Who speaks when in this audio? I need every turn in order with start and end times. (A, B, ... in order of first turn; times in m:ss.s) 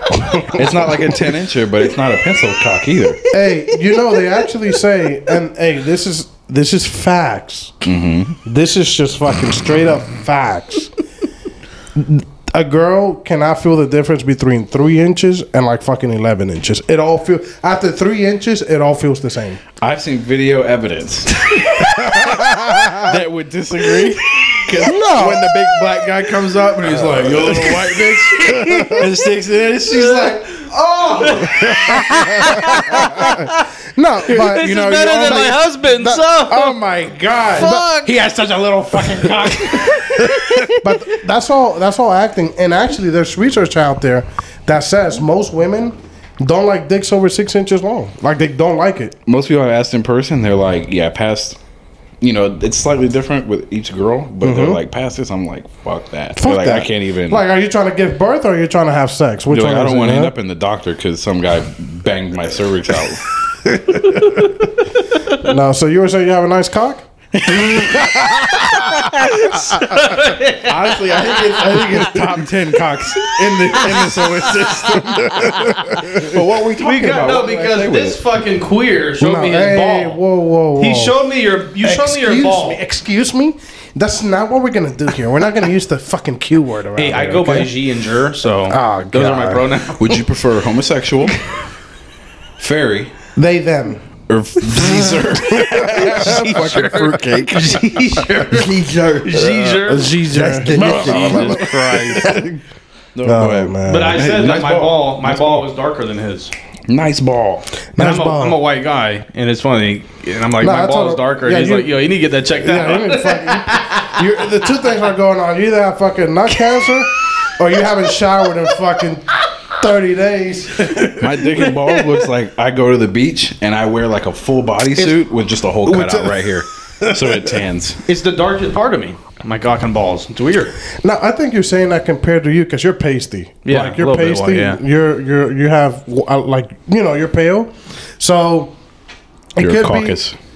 0:00.2-0:00.9 A
0:00.4-0:03.2 B
0:03.3-0:07.7 A
0:07.8-0:08.4 B
0:08.4-0:10.9 A
0:12.0-0:19.6 A
0:19.8-0:31.5 B
0:21.8-0:23.2 A
0:24.8-0:25.7 A
0:26.8-0:29.1 A
0:28.4-0:29.1 C
0:29.9-0:33.6 C
0:31.2-0:38.1 A
0:34.3-0:36.8 C
0:34.4-0:35.7 B
0:37.6-0:40.7 C
0:38.1-0:40.2 B
0:38.9-0:49.2 A
0:49.3-0:51.6 B
0:52.2-0:57.4 B
0:54.4-0:54.8 A
0:56.4-1:00.3 A
0:59.5-1:03.3 B
1:03.7-1:04.5 A
1:05.4-1:07.1 A
1:07.4-1:08.2 B
1:07.7-1:08.5 A
1:09.0-1:12.0 C
1:10.6-1:18.2 B
1:15.0-1:16.4 A
1:16.8-1:20.2 C
1:19.2-1:27.7 A
1:20.8-1:22.8 C
1:27.0-1:30.2 C
1:28.7-1:29.6 A
1:30.0-1:31.3 B
1:32.6-1:33.1 B
1:33.4-1:34.0 A
1:34.3-1:42.5 B
1:34.8-1:35.8 A
1:35.8-1:38.7 C
1:39.2-1:40.2 C
1:39.8-1:42.6 A
1:40.8-1:42.0 C
1:43.1-1:45.6 B
1:43.2-1:44.2 A
1:43.8-1:46.5 C
1:46.9-1:47.7 B
1:47.9-1:48.6 A
1:48.0-1:54.2 C
1:50.6-2:01.5 A
2:01.2-2:08.0 B
2:05.9-2:06.5 A
2:07.0-2:07.6 A
2:08.0-2:10.7 C
2:11.0-2:18.8 A
2:13.6-2:14.8 C
2:19.6-2:20.2 A
2:19.6-2:20.4 B